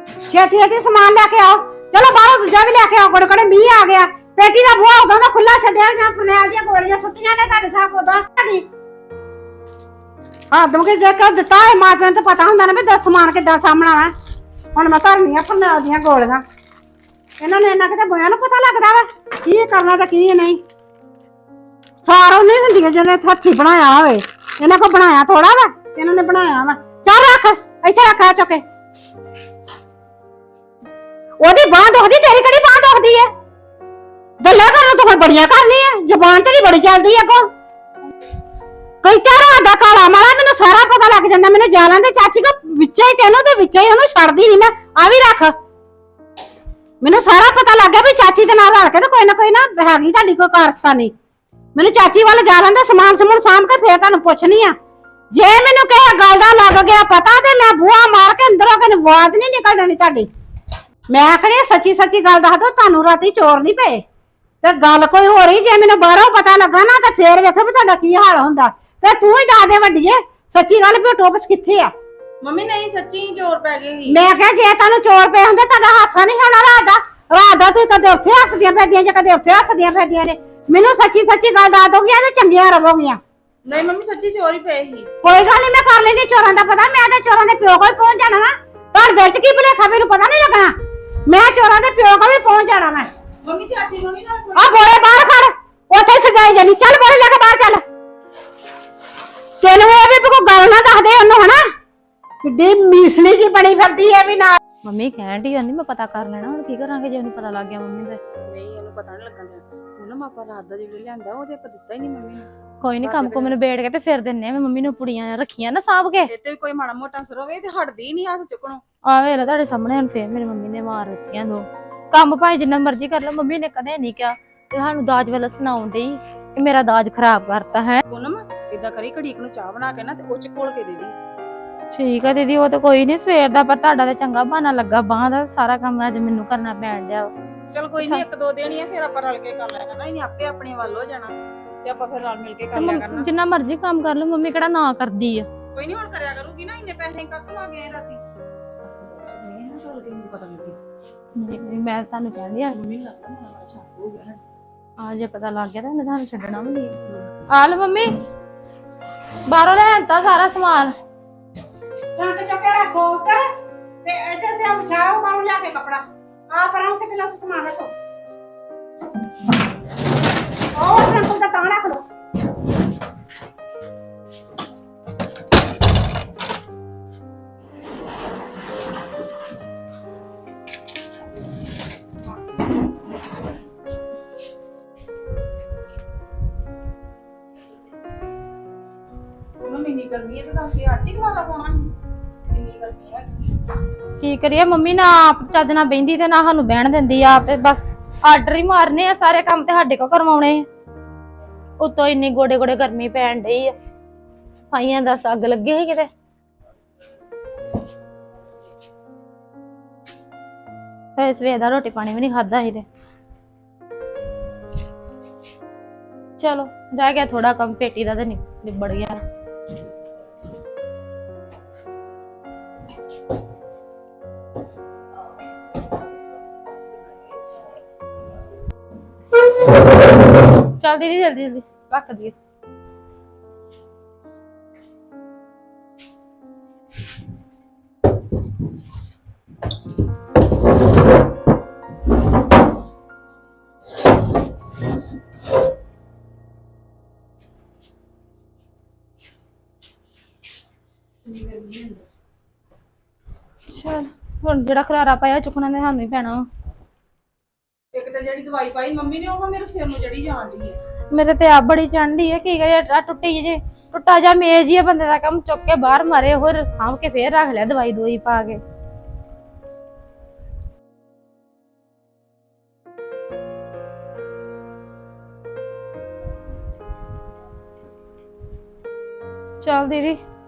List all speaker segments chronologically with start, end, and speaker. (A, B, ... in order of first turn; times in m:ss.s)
0:00.3-0:08.6 A
0:10.5-0:14.1 A
0:14.8-0:16.4 A
0:17.4-0:20.6 A
0:22.0-0:28.6 A
0:31.4-0:33.3 A
0:34.4-0:37.5 A
0:39.0-0:45.5 A
0:47.0-0:51.1 A
0:51.8-0:54.8 A
0:55.3-1:00.3 A
1:01.1-1:04.0 A
1:04.6-1:11.9 A
1:12.4-1:14.2 B
1:14.1-1:23.2 A
1:23.6-1:25.1 B
1:25.2-1:30.7 A
1:31.3-1:33.1 A
1:33.4-1:34.9 B
1:34.6-1:37.8 A
1:39.6-1:41.6 A
1:42.4-1:44.6 A
1:44.8-1:48.2 C
1:48.4-1:52.5 B
1:52.8-1:56.3 C
1:53.0-1:53.6 B
1:56.3-1:58.8 B
1:59.1-2:08.0 C
2:08.1-2:11.2 B
2:11.9-2:17.3 C
2:17.7-2:23.3 B
2:22.7-2:25.5 C
2:25.8-2:28.2 B
2:28.8-2:30.8 B
2:31.4-2:32.8 C
2:32.7-2:34.4 B
2:35.0-2:37.0 C
2:37.5-2:38.1 C
2:39.5-2:40.9 C
2:42.2-2:43.4 A
2:44.0-2:47.9 A
2:50.8-2:52.0 A
3:09.6-3:11.9 B
3:12.5-3:13.5 B
3:14.2-3:20.7 C
3:21.8-3:23.7 C
3:24.7-3:26.1 C
3:31.2-3:32.9 C
3:36.4-3:39.2 C
3:50.8-3:52.4 C
4:11.2-4:12.0 B
4:13.7-4:16.5 C
4:17.9-4:20.8 B
4:21.1-4:28.6 C
4:39.6-4:40.2 C